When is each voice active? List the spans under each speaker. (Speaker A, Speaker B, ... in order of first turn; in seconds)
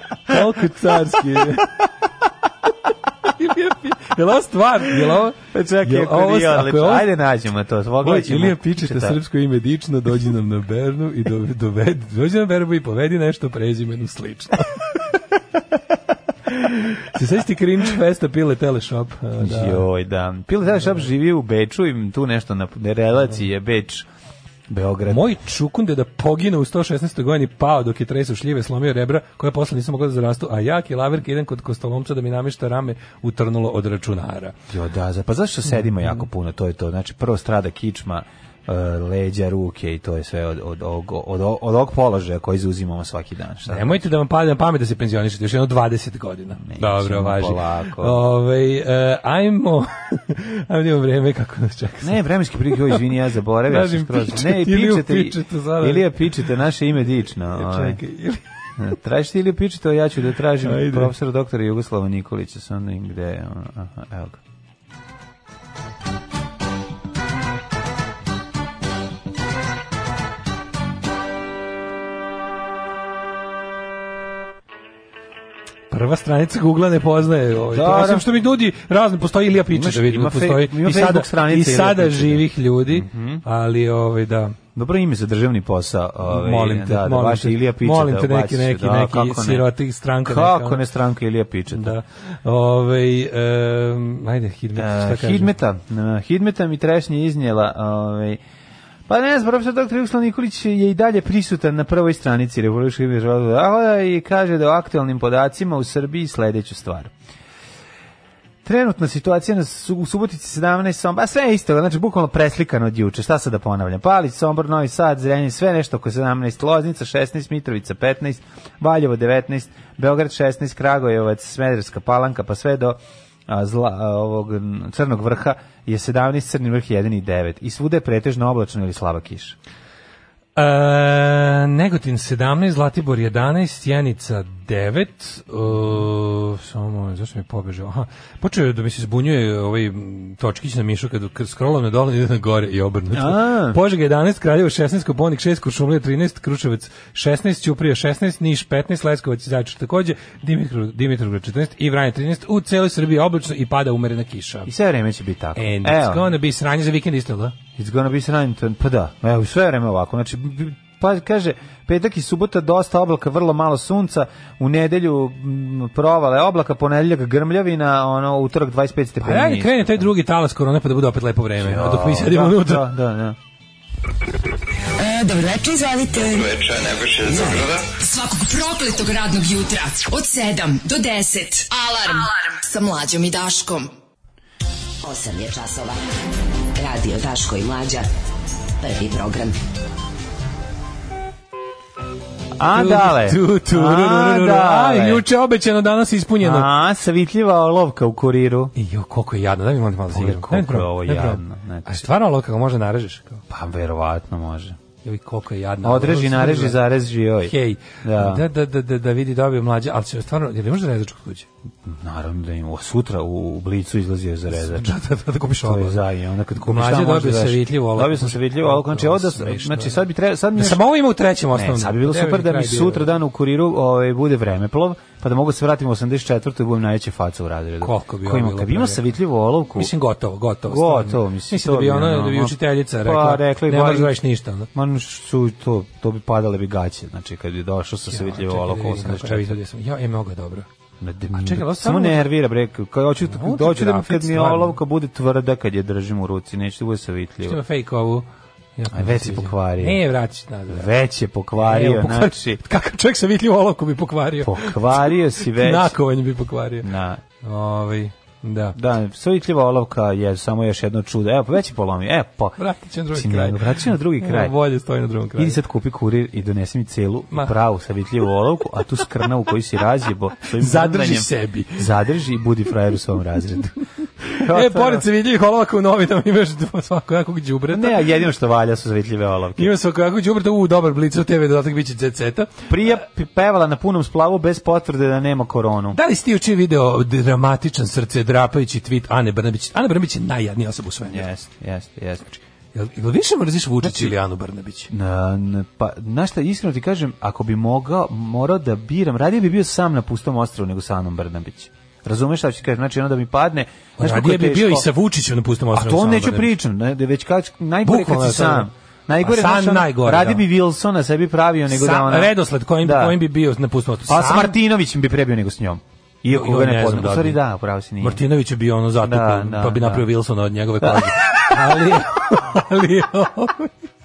Speaker A: 0.3-1.7, 3.3-7.1, 8.0-15.0, 16.5-19.9, 25.1-34.5, 43.7-52.2, 52.7-53.0, 53.7-56.2, 57.5-58.4, 60.6-61.1, 75.9-84.6, 86.3-90.8, 91.7-95.5, 130.6-154.7, 155.6-157.6, 169.2-172.9, 192.7-196.7, 198.8-203.4, 205.0-206.8, 207.4-211.5, 214.5-216.0, 216.6-220.0, 220.6-223.1, 227.8-229.0, 229.8-234.7, 238.1-240.7, 241.3-242.3, 243.2-244.8, 247.4-248.2, 248.8-250.9, 251.6-256.9, 257.4-258.8, 262.6-265.6, 270.5-271.9, 274.3-278.1, 279.6-282.7, 285.9-291.3, 292.7-294.9, 304.0-306.5, 307.9-308.7, 309.2-310.4, 311.7-314.6, 316.3-317.4, 318.0-323.7
Speaker B: 5.5-9.2, 19.4-24.1, 24.7-25.3, 34.7-44.1, 46.6-48.2, 52.0-58.0, 58.8-64.4, 77.7-78.3, 79.7-83.4, 84.7-89.7, 90.2-92.0, 94.7-98.4, 99.1-107.1, 108.6-129.6, 143.1-143.8, 154.7-156.3, 157.8-170.1, 171.6-173.4, 192.6-195.2, 196.4-198.7, 200.1-202.0, 203.5-204.8, 205.8-208.4, 211.8-215.0, 215.6-220.8, 221.5-229.9, 230.7-234.1, 234.7-239.6, 241.0-247.6, 248.9-250.0, 250.7-252.6, 254.4-255.9, 256.8-257.2, 258.7-262.6, 263.1-264.6, 265.4-273.8, 274.3-275.1, 277.7-279.7, 282.7-286.0, 291.1-292.4, 293.8-294.1, 294.9-304.9, 305.7-313.2, 314.1-318.2, 319.0-320.1, 320.8-321.5
Speaker C: 175.0-175.9, 177.9-183.9
Speaker D: 176.0-176.4, 177.2-177.7, 185.1-185.9, 186.9-188.0, 188.8-189.5